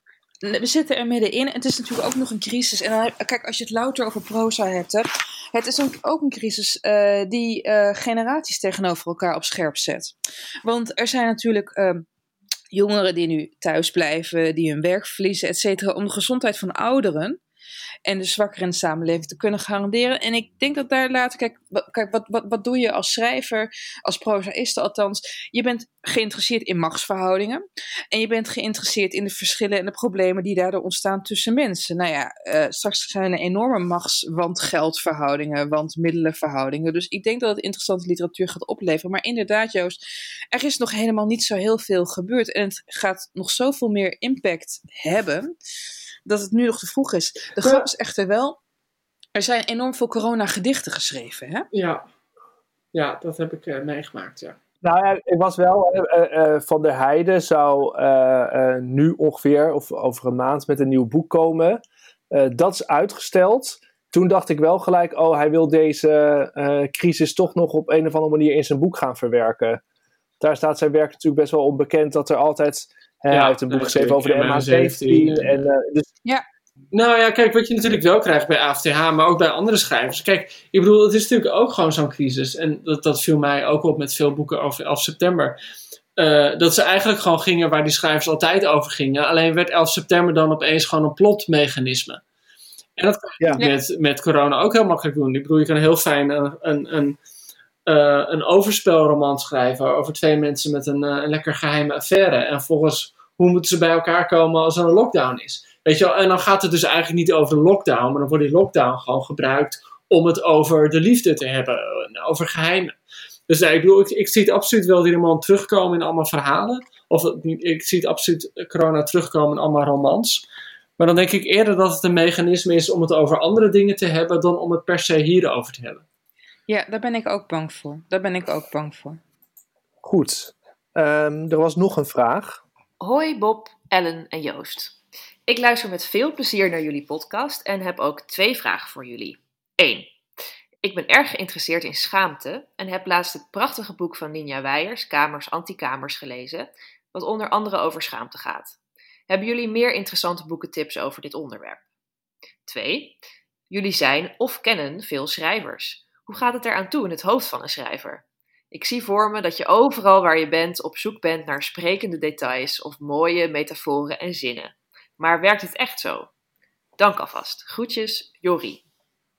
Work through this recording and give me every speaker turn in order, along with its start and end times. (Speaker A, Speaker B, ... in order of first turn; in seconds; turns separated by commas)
Speaker A: 0.4-10.1, Speaker A: 10.6-12.1, Speaker A: 12.7-17.4, Speaker A: 18.1-40.0, Speaker A: 40.5-45.5, Speaker A: 46.2-48.6, Speaker A: 49.3-51.7, Speaker B: 51.7-52.0, Speaker B: 52.9-54.6, Speaker C: 54.8-69.8, Speaker C: 70.4-76.1, Speaker B: 73.3-75.6, Speaker B: 76.9-85.5, Speaker B: 86.2-92.2, Speaker B: 93.0-97.2, Speaker B: 97.8-113.0, Speaker B: 113.5-120.4, Speaker B: 121.0-126.0, Speaker A: 126.7-129.2, Speaker C: 130.0-132.6, Speaker D: 133.0-134.9, Speaker D: 135.5-140.1, Speaker D: 140.8-148.8, Speaker D: 149.3-151.8, Speaker D: 152.7-153.2, Speaker D: 153.7-166.3, Speaker D: 167.0-168.8